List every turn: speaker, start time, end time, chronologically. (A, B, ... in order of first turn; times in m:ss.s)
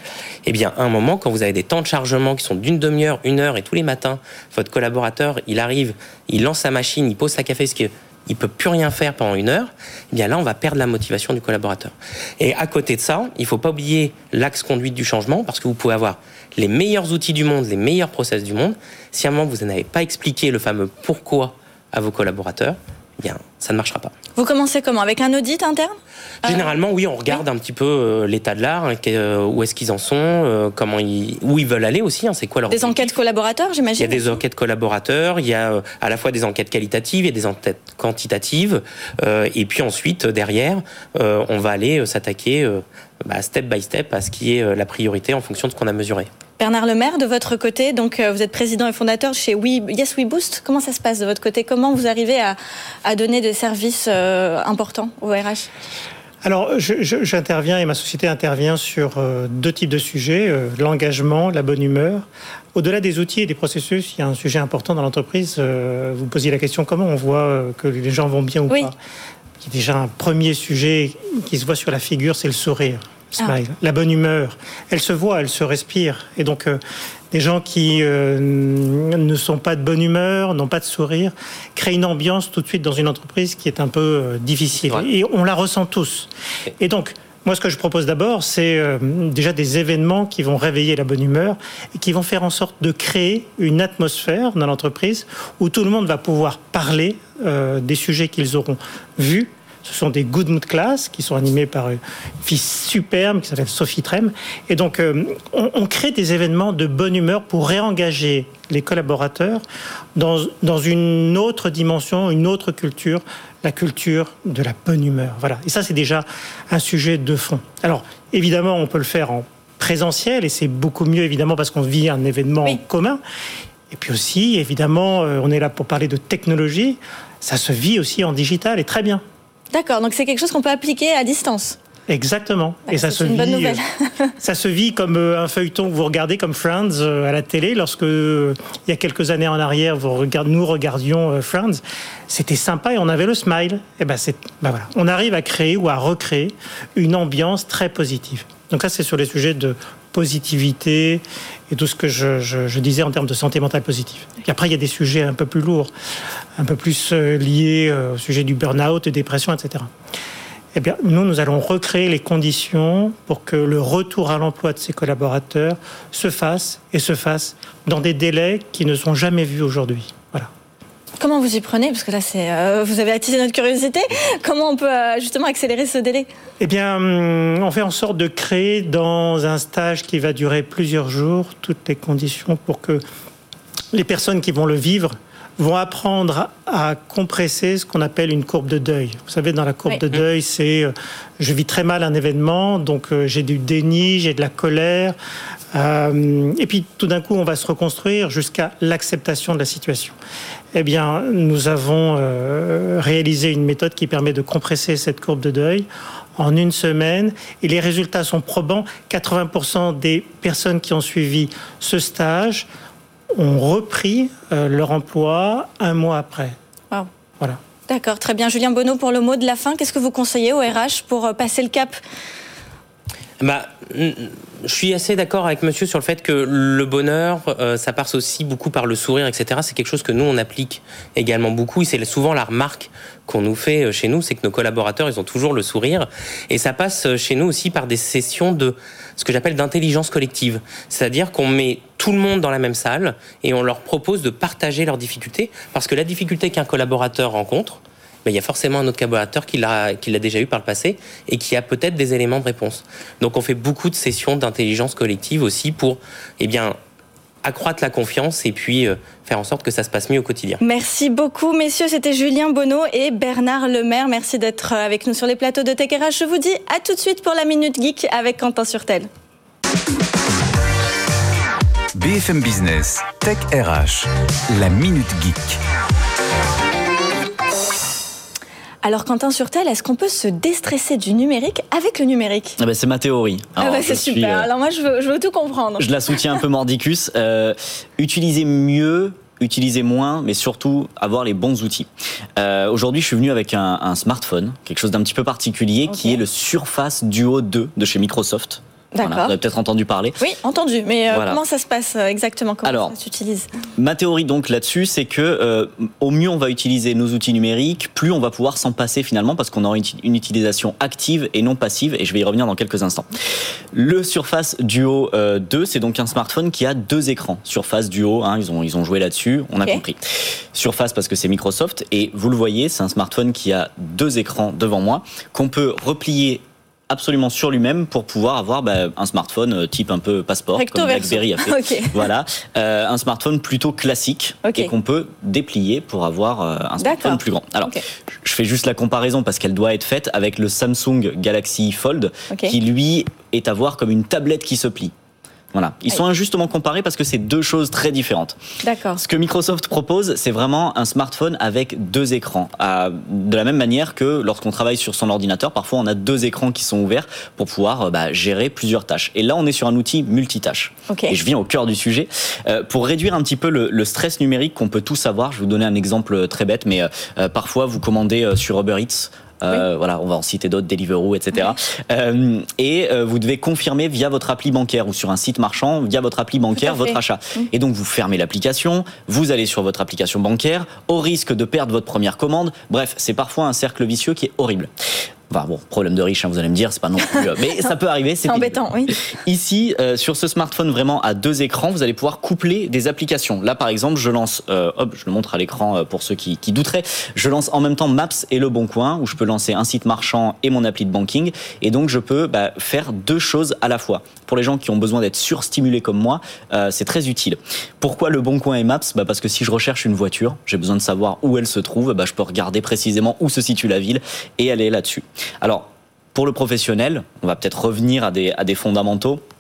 0:00.4-0:24.1 A
0:24.4-0:26.7 B
0:26.4-0:33.1 A
0:32.7-0:34.4 B
0:34.0-0:46.3 A
0:46.6-0:55.7 B
0:56.4-1:09.0 C
1:09.6-1:16.8 C
1:17.3-1:49.6 C
1:50.2-2:03.2 C
2:03.9-2:09.2 C
2:09.7-2:11.8 B
2:12.1-2:13.8 C
2:12.9-2:14.3 B
2:14.4-2:35.9 C
2:36.6-2:39.9 C
2:40.7-2:50.5 C
2:51.2-2:56.3 B
2:56.6-3:03.0 C
3:03.9-3:15.2 C
3:15.7-3:20.2 C
3:20.7-3:32.7 C
3:33.4-3:36.6 C
3:37.9-3:42.0 B
3:43.4-4:16.8 A
4:17.4-4:20.6 A
4:20.6-4:29.1 B
4:32.0-4:35.6 D
4:38.8-4:42.6 B
4:42.6-4:44.5 E
4:43.6-4:45.9 B
4:45.8-5:00.2 E
4:55.9-4:56.2 B
4:58.9-4:59.4 B
5:00.2-5:03.5 B
5:01.1-5:01.4 E
5:02.6-5:02.9 E
5:03.8-5:13.1 E
5:13.7-5:20.0 E
5:20.5-5:44.9 E
5:30.6-5:32.0 B
5:34.4-5:34.7 B
5:36.8-5:37.8 B
5:42.3-5:42.6 B
5:45.5-5:48.4 E
5:48.6-5:49.0 B
5:49.0-6:24.7 E
6:00.9-6:01.2 B
6:16.6-6:17.5 B
6:25.3-6:59.2 E
6:28.3-6:29.0 B